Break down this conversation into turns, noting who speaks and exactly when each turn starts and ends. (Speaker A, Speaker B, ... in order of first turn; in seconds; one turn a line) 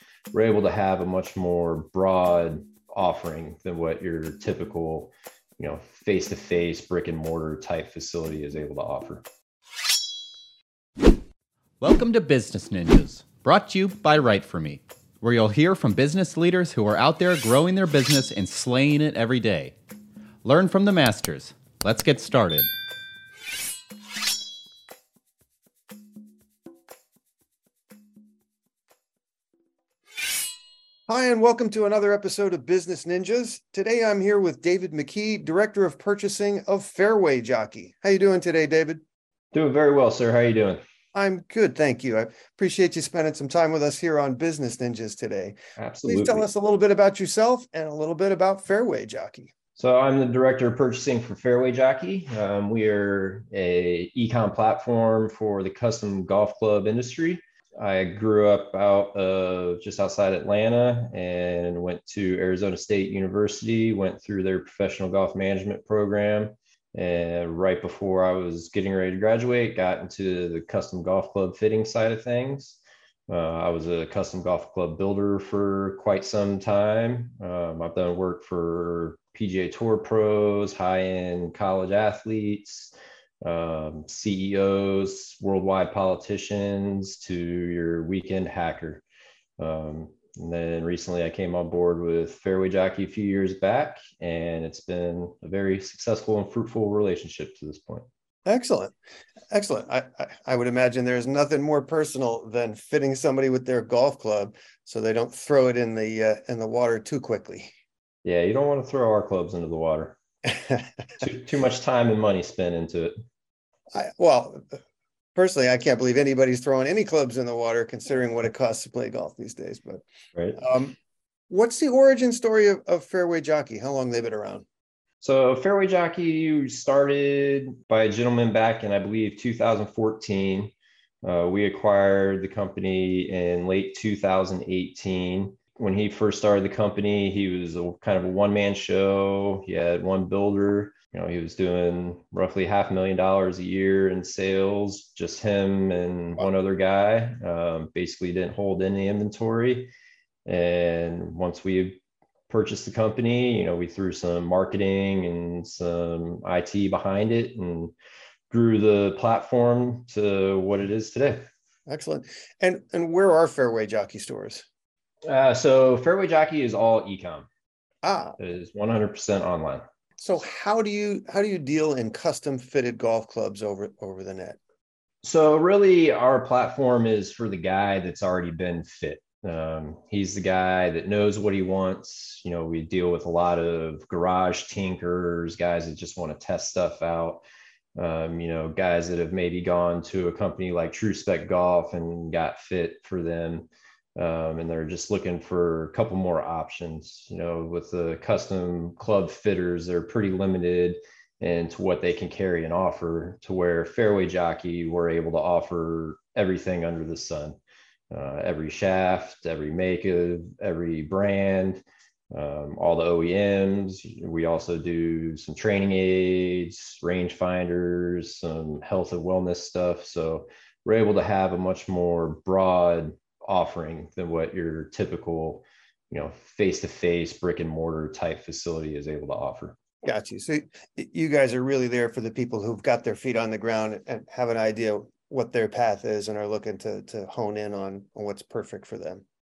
Speaker A: 0.3-9.2
Speaker B: 11.8-19.7
Speaker B: 20.4-22.7
Speaker C: 31.1-39.0
Speaker A: 39.5-40.8
Speaker C: 41.1-49.5
Speaker A: 45.8-46.5
Speaker A: 49.8-89.0
Speaker A: 89.6-98.1
Speaker C: 98.5-98.9
Speaker C: 99.5-107.7
Speaker A: 108.2-110.2
Speaker A: 111.2-113.1
Speaker C: 113.9-114.8
Speaker C: 115.3-120.0
Speaker C: 120.5-120.9
Speaker C: 121.5-124.6
Speaker A: 125.2-130.7
Speaker A: 131.2-149.9
Speaker A: 150.4-157.9
Speaker A: 158.5-161.4
Speaker C: 161.9-164.6
Speaker A: 165.3-167.5
Speaker C: 168.0-168.4
Speaker A: 168.4-169.8
Speaker C: 170.2-174.6
Speaker A: 175.2-187.4
Speaker A: 187.9-207.6
Speaker A: 208.1-229.8
Speaker C: 230.0-239.2